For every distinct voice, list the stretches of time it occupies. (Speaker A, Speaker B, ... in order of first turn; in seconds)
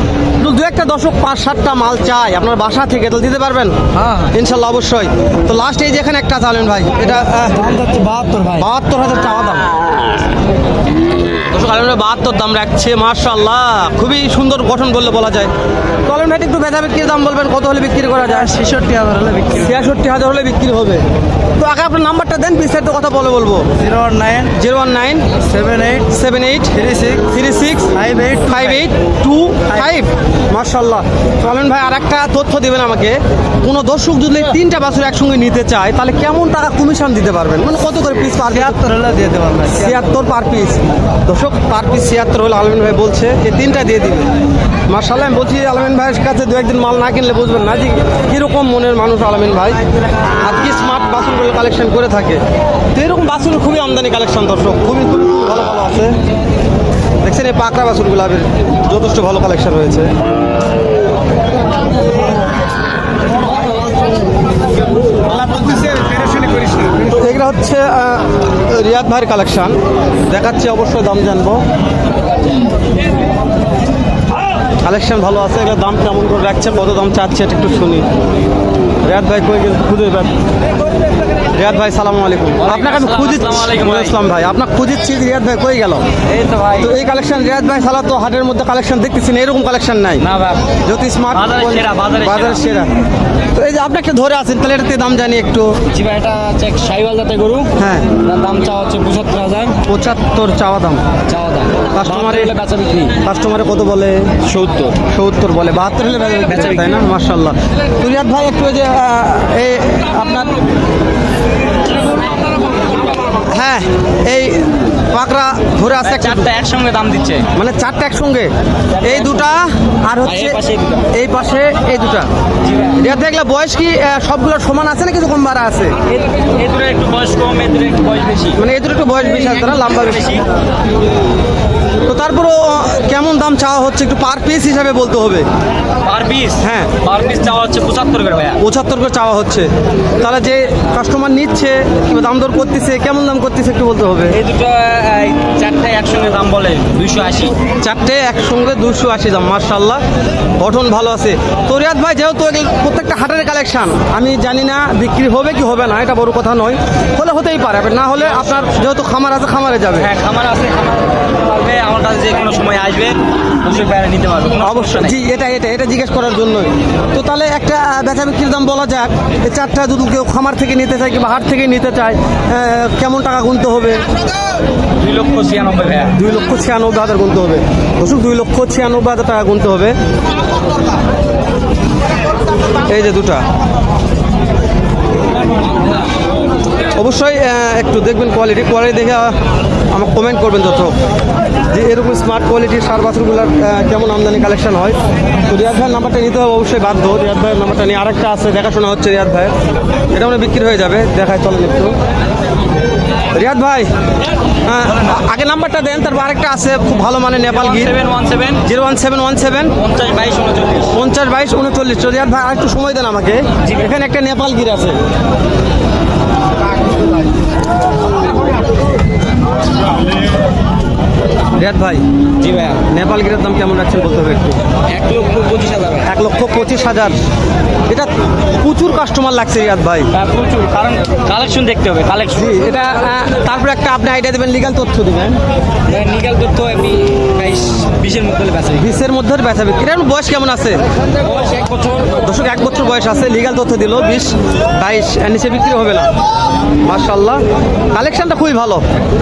Speaker A: 0.4-3.7, 4.3-7.7, 8.6-9.7, 11.5-15.5, 16.0-18.6, 19.5-21.0, 21.6-23.6, 24.5-25.3, 26.0-38.8, 39.7-44.3, 44.9-49.8, 50.4-52.4, 52.9-56.2, 57.2-60.1, 67.0-71.6, 74.8-78.1, 79.0-80.3, 81.5-86.0, 86.8-90.2, 90.8-92.9, 93.5-95.7, 97.8-98.1, 99.8-101.0, 101.9-102.5, 103.2-104.3, 105.0-110.6, 113.5-116.5, 117.5-120.6, 121.1-122.3, 122.9-126.0, 128.5-130.4, 132.0-135.4, 136.6-136.9, 138.6-144.4, 147.8-150.0, 150.6-160.1, 164.6-174.0, 176.1-179.9, 182.8-183.4, 186.9-189.3, 189.9-190.9, 191.7-199.5, 200.1-201.9, 203.3-203.9, 204.6-207.9, 208.6-209.8, 210.9-215.0, 221.6-222.0, 222.8-224.6, 226.0-227.2, 227.9-230.1, 232.3-235.4, 238.7-240.8, 242.2-246.1, 246.8-247.4, 247.9-248.8
Speaker B: 7.6-8.5, 19.1-19.4, 39.0-39.7, 65.5-66.9
Speaker C: 7.9-8.5, 18.5-19.7, 23.8-24.4, 25.5-26.0, 28.0-28.7, 38.9-39.5, 82.6-84.2, 86.3-86.9, 90.2-90.8, 91.3-92.6, 95.9-99.8, 101.2-103.2, 104.4-105.0, 106.5-106.9, 116.0-117.5, 119.0-119.5, 120.2-121.1, 122.6-123.0, 126.0-128.6, 129.3-130.4, 136.0-138.6, 144.3-147.6, 159.9-165.2, 175.0-176.1, 207.5-208.7, 209.8-210.9, 222.4-222.8, 224.9-226.1, 230.1-232.6, 235.9-238.9, 241.2-242.2